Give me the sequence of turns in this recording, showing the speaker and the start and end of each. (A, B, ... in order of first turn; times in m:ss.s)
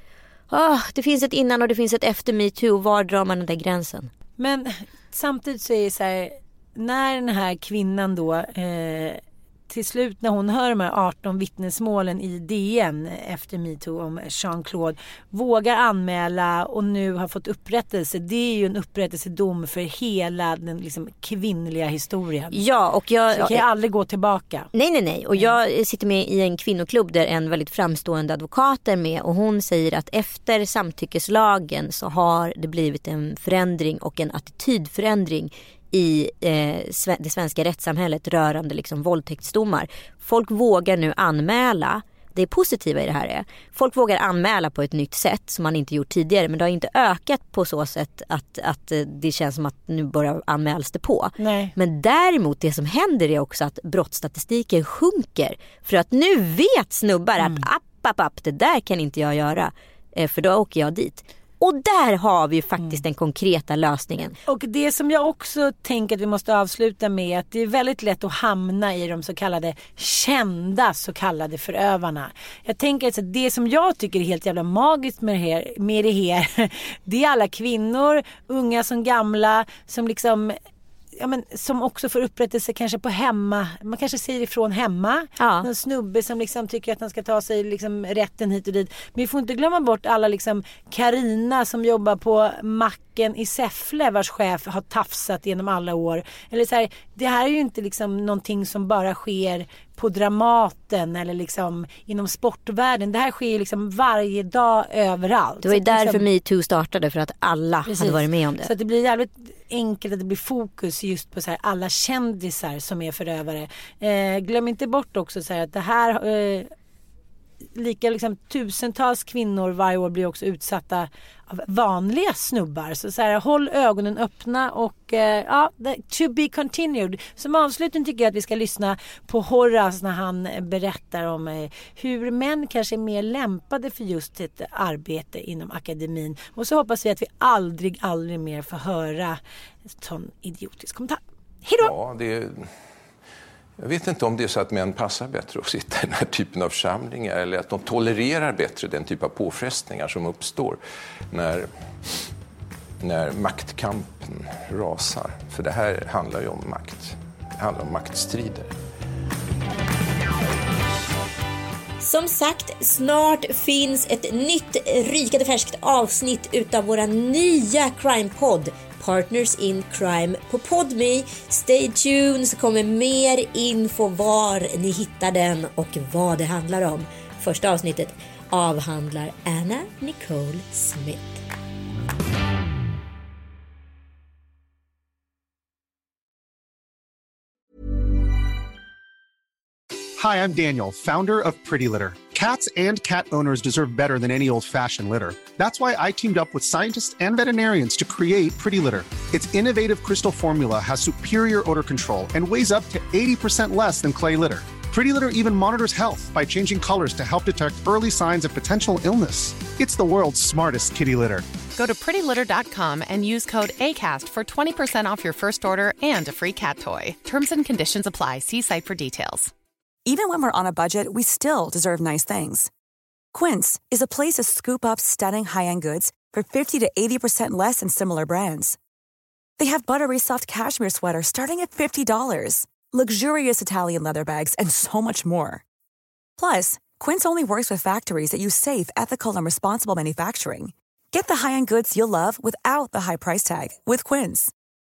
0:00.5-0:04.1 A
0:04.4-0:22.6 B
0:22.5-0:23.6 A
0:23.3-0:24.7 B
0:24.7-1:04.4 A
0:51.4-0:51.7 B
0:57.4-0:57.7 B
1:04.5-1:20.6 B
1:21.2-1:46.2 B
1:25.4-1:25.7 A
1:45.6-1:48.7 A
1:47.9-1:56.7 B
1:57.8-2:19.4 B
2:19.9-2:21.9 B
2:21.8-2:22.7 C
2:23.8-2:30.8 C
2:31.3-2:32.3 C
2:33.0-2:38.7 C
2:42.0-3:01.4 A
3:10.2-3:31.5 D
3:31.7-3:39.5 E
3:40.1-3:42.7 F
3:43.3-3:48.8 F
3:49.6-3:55.6 F
3:56.4-4:04.5 F